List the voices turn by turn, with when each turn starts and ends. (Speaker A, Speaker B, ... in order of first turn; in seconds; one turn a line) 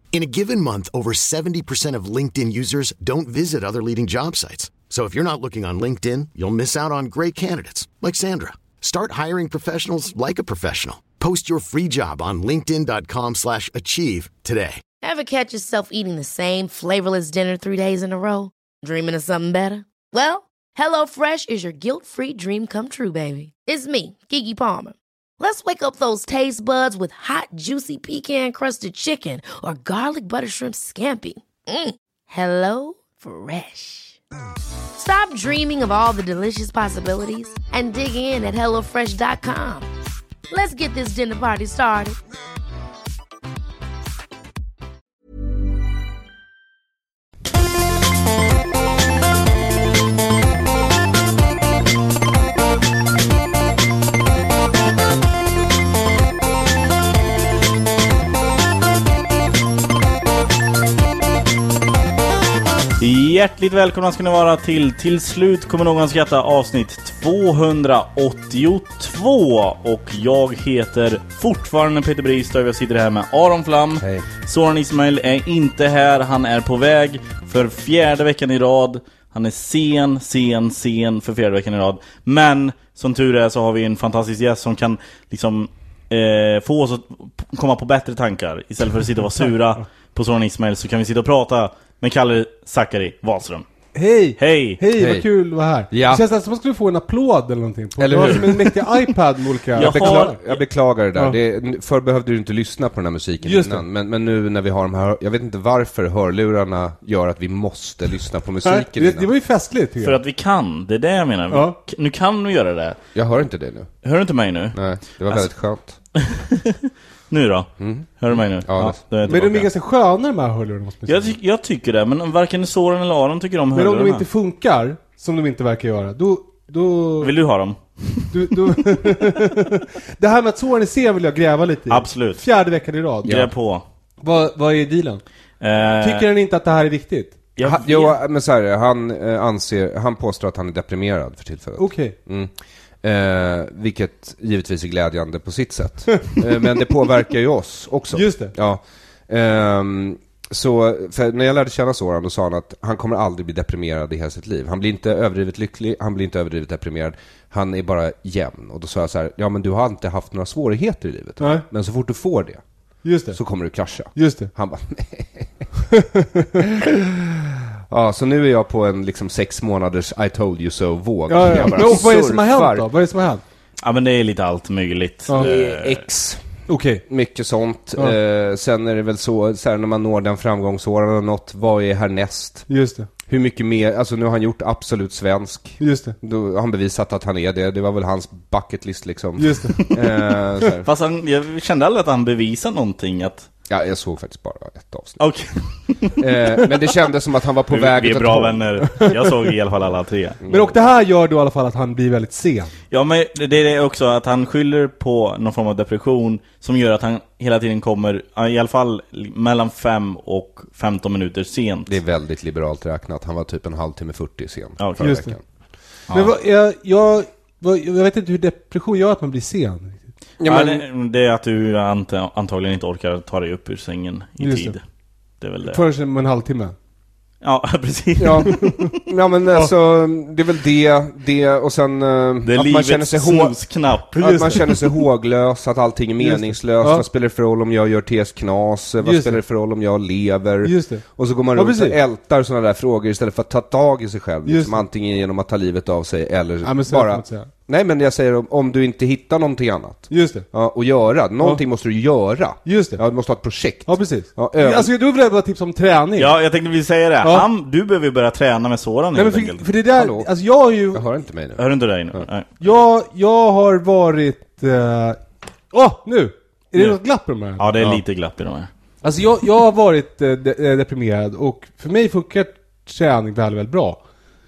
Speaker A: 0.1-14.8
Speaker B: 15.0-34.2
Speaker B: 35.0-39.9
Speaker B: 40.5-42.2
Speaker C: 63.0-93.7
Speaker D: 74.0-74.2
Speaker E: 93.9-100.4
Speaker C: 94.4-94.8
Speaker D: 95.0-95.2
Speaker D: 95.9-96.2
Speaker D: 98.0-98.8
Speaker C: 98.2-98.4
Speaker C: 99.8-100.6
Speaker D: 99.8-109.3
Speaker E: 103.5-103.8
Speaker E: 108.7-110.2
Speaker C: 110.0-113.0
Speaker E: 111.5-111.8
Speaker D: 113.2-113.9
Speaker C: 114.0-115.5
Speaker D: 114.7-116.0
Speaker C: 116.2-119.7
Speaker D: 117.8-118.1
Speaker D: 118.7-119.0
Speaker E: 119.3-121.3
Speaker C: 121.1-124.2
Speaker E: 123.7-127.3
Speaker C: 127.2-129.0
Speaker E: 128.3-133.4
Speaker C: 131.9-132.4
Speaker C: 133.2-133.8
Speaker E: 134.2-135.2
Speaker C: 135.6-136.3
Speaker E: 136.0-137.5
Speaker C: 137.6-138.2
Speaker D: 137.6-142.5
Speaker E: 141.8-142.2
Speaker D: 143.0-162.6
Speaker E: 148.1-148.5
Speaker E: 161.4-161.7
Speaker E: 163.1-163.4
Speaker D: 163.3-165.7
Speaker E: 164.1-164.5
Speaker E: 165.9-166.6
Speaker D: 166.7-172.9
Speaker E: 171.3-173.4
Speaker C: 173.8-176.0
Speaker D: 175.3-182.7
Speaker E: 176.7-177.0
Speaker E: 182.7-183.1
Speaker D: 183.2-190.9
Speaker E: 185.8-186.2
Speaker E: 189.4-189.8
Speaker C: 190.8-193.5
Speaker D: 193.7-195.2
Speaker C: 195.2-197.0
Speaker D: 196.2-198.8
Speaker C: 197.7-200.4
Speaker E: 200.5-202.8
Speaker C: 202.9-211.9
Speaker D: 211.9-215.4
Speaker C: 214.8-215.2
Speaker E: 215.0-215.3
Speaker C: 216.1-216.4
Speaker E: 216.1-220.1
Speaker D: 220.4-220.8
Speaker C: 220.4-224.8
Speaker E: 224.4-224.8
Speaker C: 225.4-225.8
Speaker E: 225.6-226.8
Speaker C: 227.4-228.8
Speaker D: 228.2-233.6
Speaker E: 228.4-228.8
Speaker C: 232.4-234.8
Speaker D: 234.2-254.9
Speaker E: 234.2-234.7
Speaker E: 236.2-237.1
Speaker E: 239.0-239.4
Speaker E: 240.6-242.0
Speaker E: 244.5-244.8
Speaker E: 246.6-247.5
Speaker E: 250.1-250.5
Speaker E: 252.7-253.0
Speaker E: 253.8-256.4
Speaker C: 256.2-259.7
Speaker E: 257.2-257.5
Speaker E: 259.1-261.1
Speaker D: 259.9-260.3
Speaker D: 260.9-261.6
Speaker C: 261.6-262.6
Speaker E: 262.6-268.0
Speaker C: 267.6-268.7
Speaker E: 269.0-274.0